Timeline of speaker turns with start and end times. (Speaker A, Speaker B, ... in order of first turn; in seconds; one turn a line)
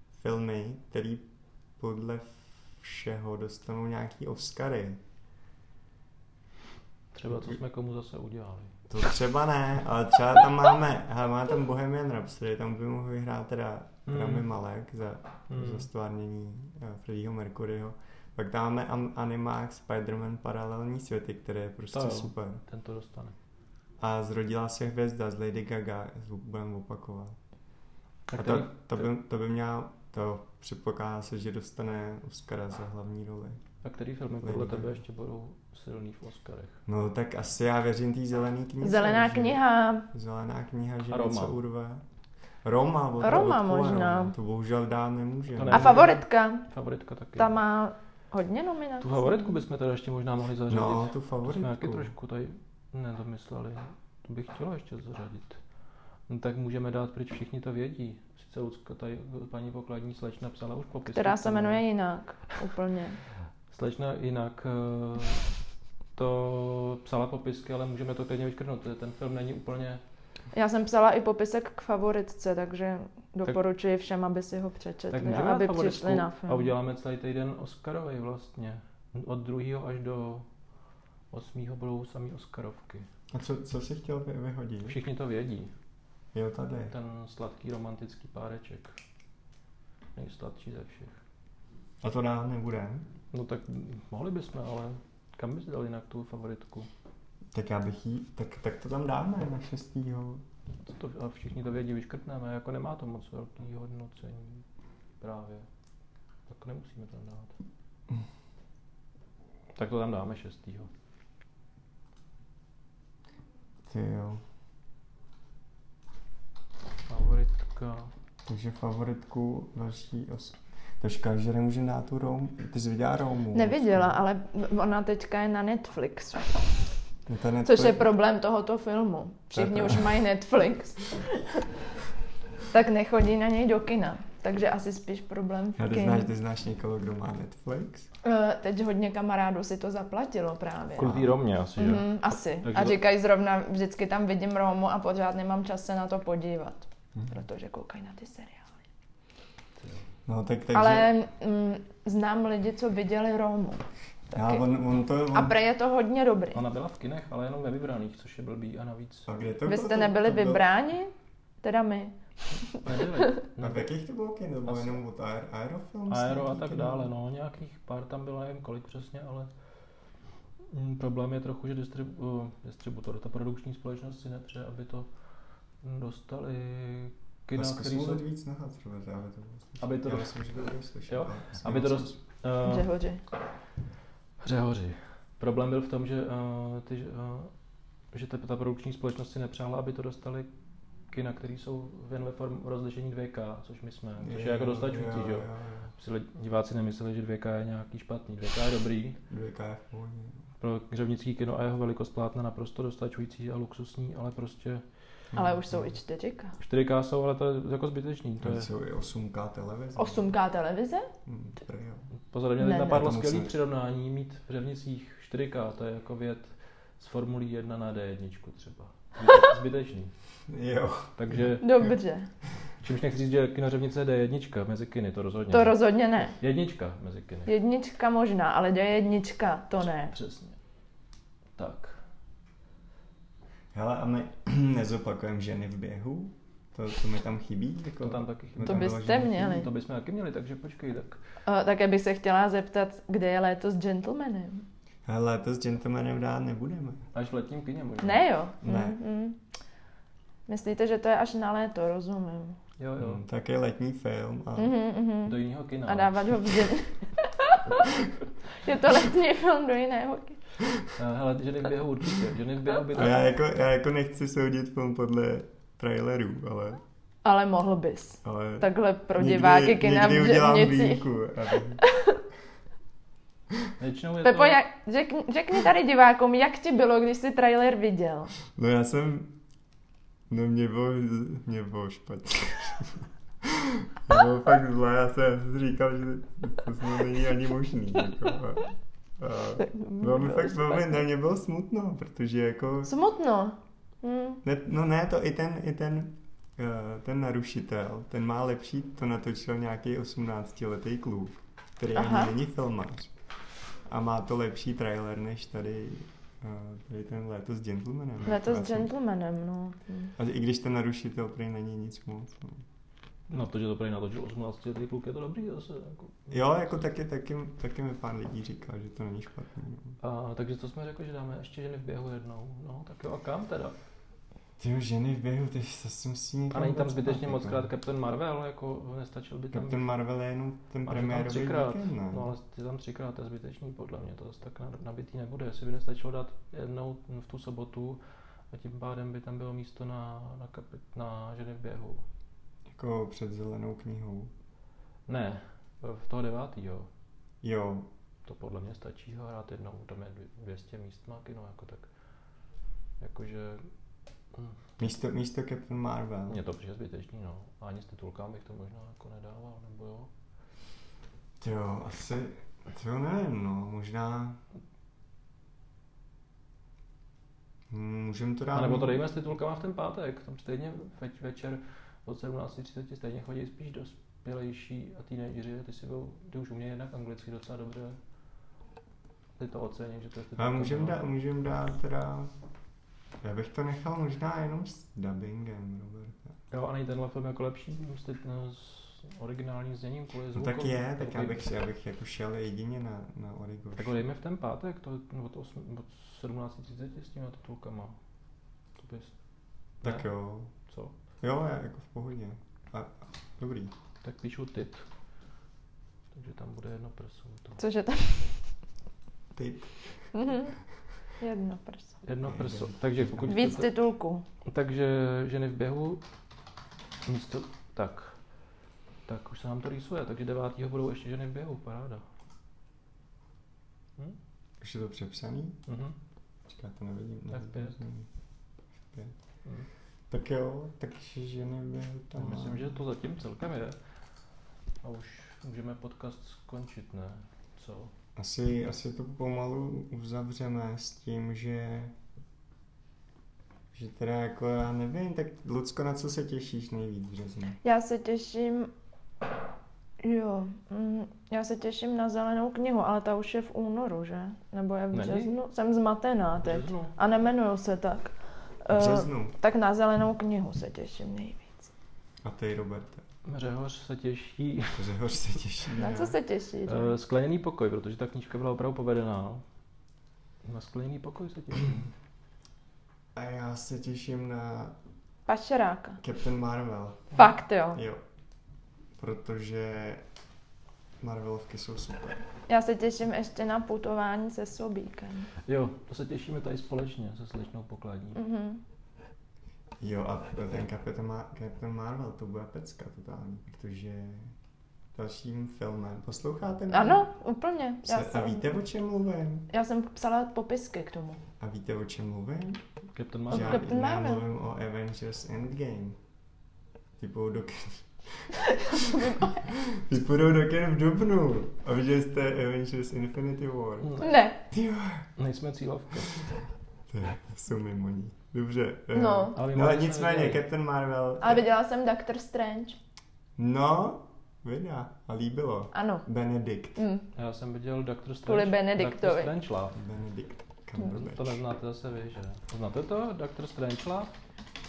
Speaker A: 0.2-5.0
Speaker B: 7.1-8.8
Speaker A: 7.3-7.6
Speaker A: 8.9-22.6
Speaker B: 14.1-14.5
Speaker B: 15.5-15.9
Speaker B: 21.9-23.4
Speaker A: 24.0-27.4
Speaker B: 28.3-29.1
Speaker A: 28.3-33.6
Speaker B: 33.8-36.8
Speaker A: 34.4-35.0
Speaker A: 36.9-42.0
Speaker C: 38.8-40.1
Speaker B: 41.1-41.6
Speaker A: 42.6-46.0
Speaker C: 43.2-44.3
Speaker B: 45.5-47.6
Speaker C: 45.7-46.7
Speaker C: 47.4-49.5
Speaker B: 49.0-55.6
Speaker A: 50.7-52.1
Speaker B: 56.3-61.8
Speaker C: 61.1-63.2
Speaker B: 63.7-65.5
Speaker B: 66.2-70.0
Speaker C: 70.5-76.7
Speaker B: 75.1-80.5
Speaker B: 81.3-83.1
Speaker A: 83.3-85.0
Speaker B: 84.8-85.7
Speaker A: 86.3-86.9
Speaker B: 86.9-89.0
Speaker B: 90.2-91.2
Speaker A: 92.0-93.1
Speaker B: 93.3-96.9
Speaker A: 97.5-100.4
Speaker B: 100.8-104.7
Speaker B: 105.2-105.7
Speaker B: 106.5-107.5
Speaker B: 109.8-110.9
Speaker A: 113.9-114.4
Speaker B: 117.1-118.1
Speaker A: 118.5-124.2
Speaker C: 123.5-126.8
Speaker A: 127.3-128.0
Speaker C: 127.7-131.7
Speaker A: 129.5-130.2
Speaker C: 132.7-136.3
Speaker A: 135.8-138.1
Speaker C: 138.2-141.1
Speaker B: 140.9-143.0
Speaker A: 141.0-141.3
Speaker C: 141.8-148.8
Speaker A: 147.2-147.4
Speaker B: 149.8-150.1
Speaker A: 150.3-151.1
Speaker C: 150.7-154.7
Speaker A: 154.3-155.6
Speaker C: 155.3-156.6
Speaker B: 156.5-159.3
Speaker A: 159.3-160.7
Speaker C: 159.7-162.8
Speaker B: 162.8-163.9
Speaker A: 163.6-167.1
Speaker B: 164.7-165.0
Speaker B: 166.1-169.5
Speaker B: 170.7-175.1
Speaker B: 175.8-178.2
Speaker A: 177.5-182.2
Speaker B: 179.8-180.4
Speaker B: 181.1-182.9
Speaker C: 182.6-183.2
Speaker B: 184.4-187.5
Speaker B: 188.1-190.5
Speaker B: 191.1-199.2
Speaker A: 194.2-195.9
Speaker A: 199.3-200.4
Speaker B: 200.6-204.8
Speaker A: 205.3-205.9
Speaker C: 205.3-206.6
Speaker B: 206.6-208.7
Speaker A: 208.4-210.3
Speaker C: 210.0-211.1
Speaker A: 211.3-212.1
Speaker B: 212.3-220.1
Speaker C: 212.6-213.0
Speaker A: 212.9-213.5
Speaker A: 220.5-221.4
Speaker B: 221.2-221.7
Speaker C: 221.6-222.3
Speaker B: 222.8-225.8
Speaker C: 225.5-226.4
Speaker B: 226.4-227.5
Speaker C: 227.5-230.1
Speaker B: 230.1-230.6
Speaker B: 231.6-232.0
Speaker A: 233.7-239.5
Speaker B: 237.9-241.2
Speaker C: 238.7-239.7
Speaker C: 241.5-244.7
Speaker A: 245.1-247.1
Speaker B: 247.1-248.3
Speaker C: 248.0-249.4
Speaker A: 248.6-249.0
Speaker C: 250.5-252.6
Speaker B: 252.8-253.2
Speaker A: 253.0-254.8
Speaker C: 254.6-257.9
Speaker B: 255.2-256.5
Speaker C: 258.6-260.4
Speaker B: 260.9-263.3
Speaker A: 262.9-266.8
Speaker C: 267.2-271.1
Speaker A: 268.2-271.8
Speaker C: 271.8-272.2
Speaker B: 273.8-274.6
Speaker C: 274.2-278.3
Speaker A: 278.5-279.4
Speaker A: 280.3-292.9
Speaker C: 289.7-290.6
Speaker C: 292.9-294.4
Speaker A: 294.4-303.1
Speaker C: 301.9-302.3
Speaker A: 303.9-308.9
Speaker C: 308.3-310.1
Speaker A: 310.2-312.6
Speaker B: 313.3-316.3
Speaker A: 316.3-320.0
Speaker B: 320.0-323.8
Speaker A: 324.6-327.7
Speaker B: 326.5-329.9
Speaker A: 329.5-332.3
Speaker B: 330.9-338.0
Speaker B: 338.5-342.0
Speaker A: 342.7-344.3
Speaker B: 345.1-346.9
Speaker A: 347.4-347.9
Speaker B: 348.2-351.9
Speaker B: 353.0-353.7
Speaker A: 354.8-356.4
Speaker B: 356.3-360.1
Speaker A: 361.4-364.4
Speaker A: 367.7-369.0
Speaker B: 368.5-378.0
Speaker B: 379.4-381.0
Speaker A: 380.4-382.4
Speaker A: 383.2-386.3
Speaker B: 386.5-391.4
Speaker A: 390.4-394.0
Speaker B: 393.8-398.0
Speaker B: 398.8-399.1
Speaker B: 399.8-400.1
Speaker A: 399.8-400.5
Speaker B: 400.7-400.9
Speaker A: 401.2-403.7
Speaker B: 404.0-404.9
Speaker B: 406.1-407.6
Speaker C: 407.6-408.4
Speaker A: 409.3-410.2
Speaker C: 410.1-410.6
Speaker C: 411.2-412.0
Speaker B: 412.0-413.7
Speaker A: 412.2-413.3
Speaker C: 413.3-414.2
Speaker B: 414.4-416.0
Speaker B: 417.1-418.2
Speaker B: 419.1-422.0
Speaker A: 424.6-425.6
Speaker B: 425.7-425.9
Speaker A: 426.5-428.1
Speaker B: 427.3-427.8
Speaker A: 428.8-429.2
Speaker A: 430.1-432.7
Speaker B: 432.2-433.8
Speaker B: 434.8-437.9
Speaker A: 438.2-441.9
Speaker A: 443.7-447.6
Speaker C: 447.6-448.7
Speaker C: 450.0-461.7
Speaker B: 454.9-455.3
Speaker B: 456.4-456.9
Speaker A: 458.7-459.4
Speaker A: 462.2-463.0
Speaker B: 463.2-464.9
Speaker A: 464.8-466.2
Speaker C: 465.8-466.9
Speaker B: 466.7-469.4
Speaker B: 470.4-471.9
Speaker A: 473.1-474.8
Speaker C: 475.3-476.0
Speaker A: 476.0-478.0
Speaker C: 477.1-477.8
Speaker A: 479.0-480.0
Speaker A: 481.0-482.2
Speaker C: 482.5-485.3
Speaker B: 485.5-488.2
Speaker C: 488.2-488.6
Speaker A: 489.8-494.3
Speaker A: 494.9-497.1
Speaker C: 496.7-498.4
Speaker A: 497.8-499.5
Speaker C: 499.5-501.2
Speaker A: 501.4-502.6
Speaker B: 502.9-503.7
Speaker A: 503.3-506.0
Speaker C: 503.3-504.2
Speaker A: 507.0-513.9
Speaker C: 508.5-509.4
Speaker B: 513.8-514.2
Speaker C: 514.0-514.4
Speaker A: 514.5-515.1
Speaker B: 515.2-516.3
Speaker A: 516.9-521.5
Speaker C: 518.9-519.4
Speaker B: 519.4-520.4
Speaker C: 521.2-522.8
Speaker A: 523.4-526.8
Speaker C: 525.7-526.0
Speaker C: 526.8-527.1
Speaker B: 527.1-529.8
Speaker C: 528.3-529.3
Speaker A: 529.7-531.4
Speaker B: 530.8-534.1